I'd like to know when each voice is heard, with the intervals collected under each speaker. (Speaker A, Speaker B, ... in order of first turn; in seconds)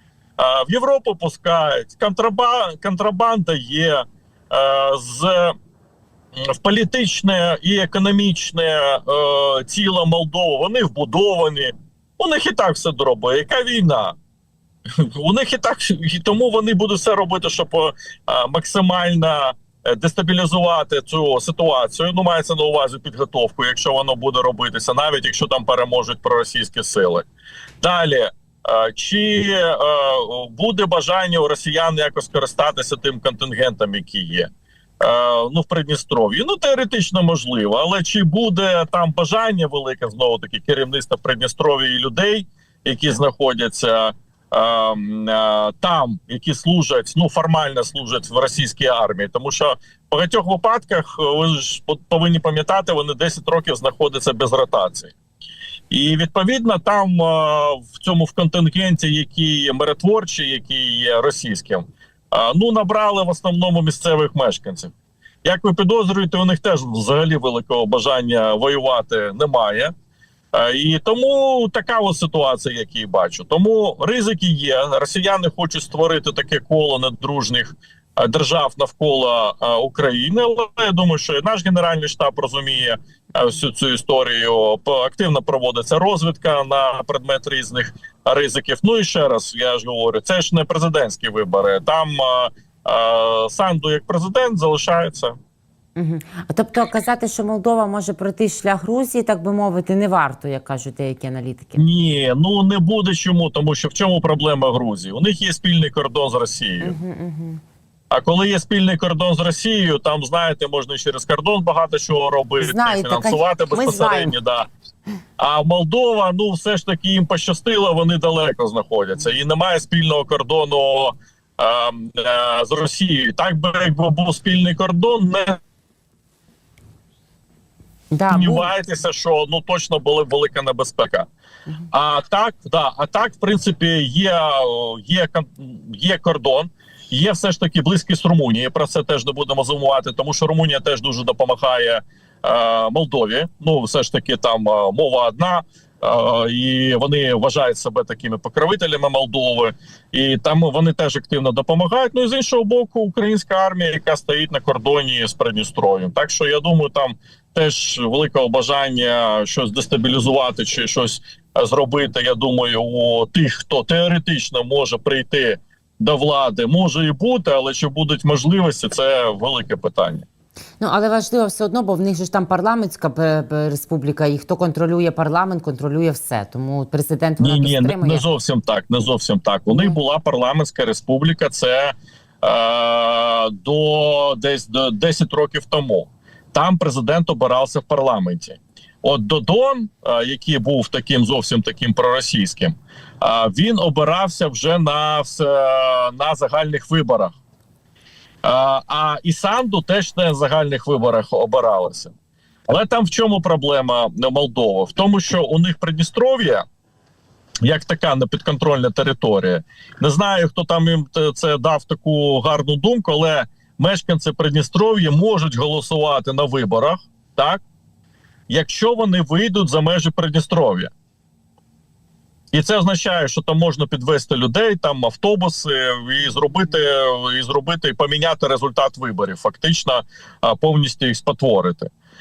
Speaker A: 0.4-5.5, 6.4-14.2, 15.0-27.3, 27.8-34.5, 35.0-55.1, 55.9-64.9, 65.4-69.9, 70.5-95.3, 101.8-107.0, 108.1-114.7, 115.4-125.6, 128.3-131.3, 131.9-170.2, 177.4-197.3, 198.4-202.1, 202.7-206.6, 207.6-217.6, 218.5-220.9, 222.5-231.9
Speaker B: 96.0-101.8, 106.8-107.6, 112.6-114.3, 128.1-128.7, 170.8-178.2, 179.7-180.0